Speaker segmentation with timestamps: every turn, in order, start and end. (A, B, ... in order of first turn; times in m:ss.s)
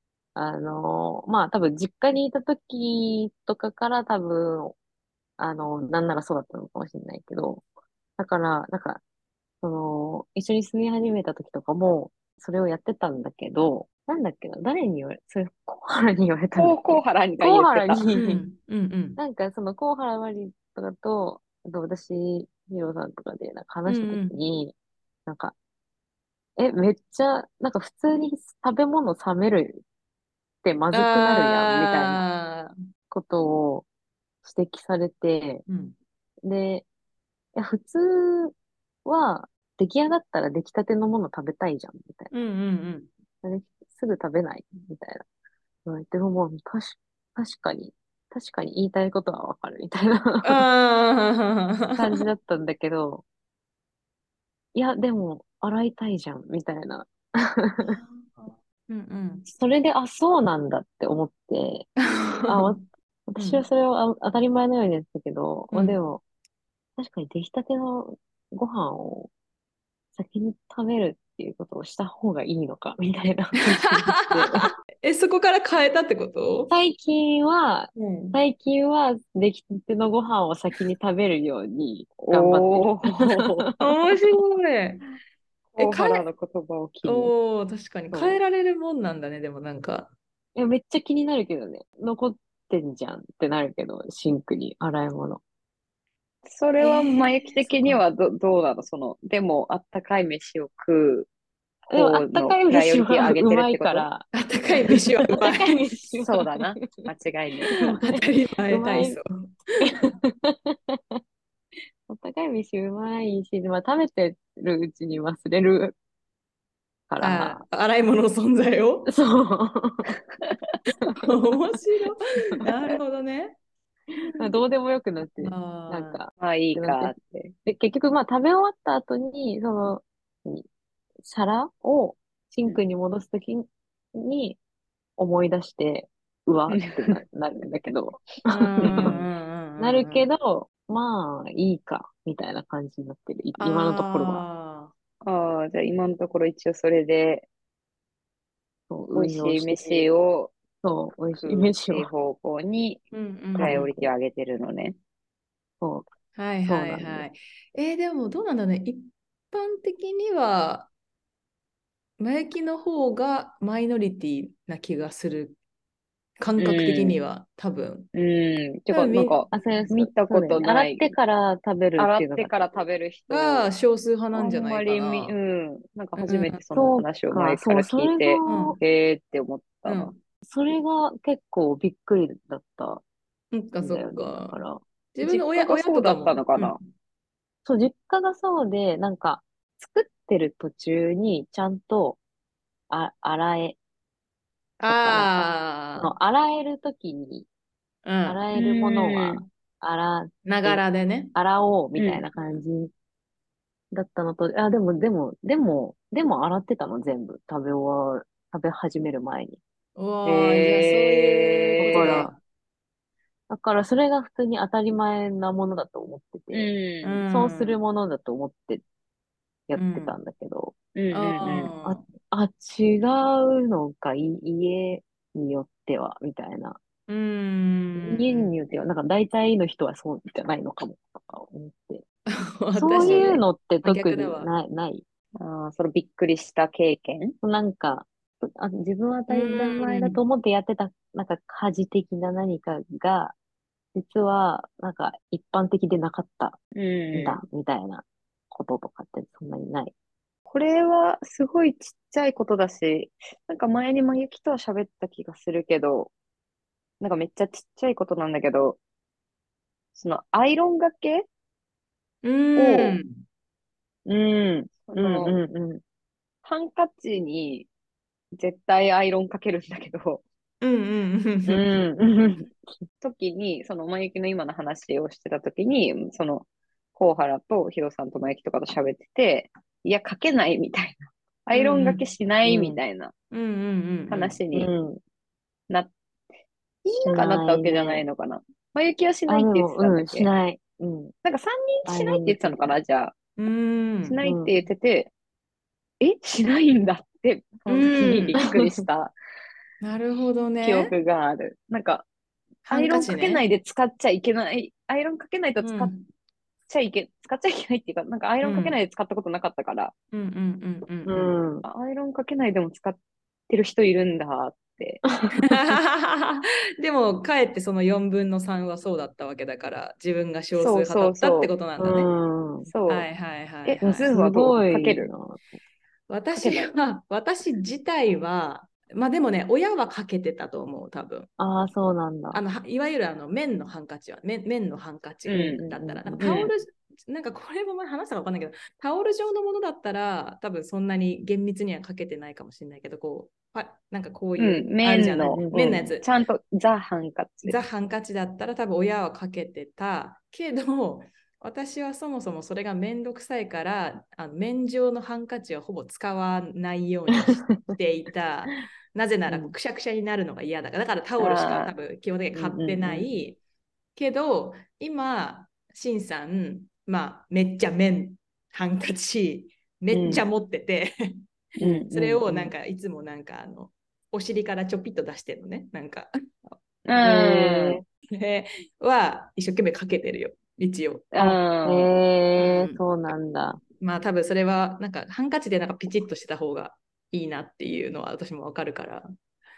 0:00.4-0:04.8 A
0:05.4-0:07.6 A
0:08.2-0:09.0 A
0:09.6-0:18.4 A
0:16.6-0:18.0 B
0:18.1-0:19.2 C
0:19.2-0:25.6 A
0:23.9-0:24.4 C
0:26.6-0:29.8 A
0:30.6-0:32.2 A
0:30.9-0:32.7 C
0:33.1-0:33.9 A
0:34.4-0:35.6 A
0:35.7-0:35.9 C
0:36.4-0:36.9 A
0:37.6-0:42.3 A
0:42.3-0:43.1 C
0:43.4-0:45.2 A
0:45.9-0:50.7 A
0:50.4-0:52.2 C
0:52.0-0:53.2 A
0:54.8-0:58.0 A
0:57.8-0:59.5 C
0:59.5-1:01.9 A
1:02.0-1:02.8 C
1:02.5-1:06.2 A
1:05.7-1:06.0 C
1:07.0-1:09.3 A
1:10.2-1:14.7 A
1:13.7-1:16.7 C
1:16.7-1:24.0 A
1:18.0-1:18.4 C
1:22.2-1:23.5 B
1:23.8-1:25.0 C
1:25.7-1:27.3 B
1:25.8-1:26.3 C
1:27.0-1:30.1 C
1:28.1-1:28.4 A
1:30.6-1:35.4 A
1:36.5-1:41.3 B
1:36.8-1:38.0 C
1:41.9-1:44.1 B
1:41.9-1:44.3 A
1:44.3-1:46.2 C
1:44.9-1:49.2 A
1:46.2-1:47.8 B
1:47.7-1:50.1 C
1:50.3-1:51.2 A
1:52.1-1:56.0 A
1:57.1-1:57.6 A
1:57.2-1:59.1 C
1:59.1-2:00.2 A
2:01.2-2:03.6 C
2:02.6-2:03.0 A
2:04.4-2:10.7 A
2:05.2-2:06.2 C
2:06.4-2:07.5 B
2:11.2-2:14.6 A
2:15.2-2:19.2 A
2:18.5-2:20.3 C
2:18.8-2:19.2 B
2:19.8-2:24.4 A
2:23.6-2:24.9 C
2:25.2-2:27.5 B
2:28.9-2:30.1 A
2:29.1-2:30.5 B
2:30.8-2:32.1 A
2:31.4-2:33.0 B
2:33.1-2:33.9 C
2:33.6-2:34.1 A
2:33.6-2:35.0 B
2:35.8-2:36.1 A
2:36.4-2:40.9 C
2:36.6-2:37.3 A
2:42.2-2:45.6 C
2:46.4-2:48.1 C
2:46.6-2:47.2 B
2:48.1-2:51.1 B
2:48.9-2:49.4 C
2:49.5-2:52.8 A
2:52.0-2:53.7 B
2:53.3-2:55.4 C
2:54.3-3:00.1 B
2:56.2-2:56.6 C
2:56.7-2:58.8 A
2:58.5-2:58.8 C
2:59.8-3:00.2 C
3:00.4-3:03.0 A
3:03.5-3:04.6 C
3:03.8-3:04.8 A
3:05.2-3:06.8 C
3:05.2-3:06.8 B
3:07.7-3:12.2 A
3:12.9-3:13.8 A
3:14.8-3:16.1 C
3:14.9-3:17.5 A
3:18.0-3:18.5 C
3:18.2-3:20.8 A
3:18.5-3:19.4 B
3:20.4-3:21.3 C
3:21.4-3:22.9 A
3:22.0-3:22.2 B
3:23.9-3:29.6 A
3:30.0-3:32.4 C
3:30.2-3:32.3 B
3:31.8-3:32.4 A
3:33.5-3:36.8 A
3:36.5-3:37.2 B
3:37.0-3:37.8 C
3:37.3-3:38.8 A
3:39.7-3:40.8 A
3:39.8-3:40.2 C
3:41.0-3:41.7 B
3:41.1-3:42.0 C
3:41.8-3:46.8 A
3:47.1-3:48.5 C
3:48.0-3:52.0 A
3:52.3-3:54.5 C
3:52.7-3:55.0 A
3:53.0-3:53.4 B
3:55.4-3:57.4 B
3:57.4-4:03.4 A
3:59.3-4:00.2 C
4:04.0-4:06.6 A
4:06.8-4:07.4 B
4:07.1-4:09.9 A
4:10.5-4:16.1 B
4:17.0-4:18.8 B
4:20.0-4:21.3 B
4:22.2-4:23.2 C
4:22.6-4:23.0 B
4:24.1-4:25.8 A
4:24.9-4:25.4 B
4:26.4-4:27.7 B
4:28.4-4:30.2 B
4:30.6-4:31.8 C
4:31.5-4:32.5 A
4:33.0-4:43.1 B
4:41.5-4:42.0 C
4:42.4-4:42.8 A
4:43.3-4:44.4 C
4:44.1-4:44.7 B
4:44.5-4:45.0 A
4:46.8-4:50.3 B
4:47.0-4:48.1 A
4:49.3-4:51.1 A
4:51.2-4:53.2 B
4:51.9-4:52.8 A
4:53.4-4:54.2 C
4:54.0-4:55.1 B
4:54.2-4:54.6 A
4:56.0-4:59.1 B
4:57.7-4:58.4 C
4:58.4-4:58.8 A
4:59.8-5:00.9 C
5:00.6-5:02.1 B
5:02.6-5:03.4 C
5:02.7-5:06.0 B
5:05.6-5:06.0 C
5:06.7-5:09.9 B
5:08.4-5:08.8 C
5:10.1-5:11.3 C
5:11.0-5:11.6 A
5:11.6-5:13.0 B
5:13.5-5:15.0 B
5:15.4-5:22.1 C
5:20.6-5:21.5 B
5:21.8-5:22.7 A
5:22.7-5:23.1 B
5:22.9-5:24.1 C
5:23.6-5:25.1 B
5:23.8-5:25.4 A
5:26.1-5:31.3 C
5:26.3-5:26.7 B
5:31.4-5:32.4 A
5:32.3-5:46.1 C
5:35.3-5:36.5 A
5:35.3-5:35.6 B
5:36.2-5:36.5 B
5:44.4-5:47.6 B
5:45.3-5:45.9 A
5:47.4-6:03.4 C
5:59.3-5:59.5 A
6:01.2-6:01.7 B
6:02.3-6:03.1 A
6:04.0-6:10.9 C
6:09.9-6:10.2 B
6:11.6-6:12.3 B
6:11.6-6:12.5 A
6:11.9-6:16.6 C
6:16.9-6:17.8 B
6:17.0-6:17.8 A
6:18.2-6:21.1 C
6:21.1-6:21.9 B
6:21.2-6:23.6 A
6:22.4-6:22.8 C
6:23.8-6:29.0 C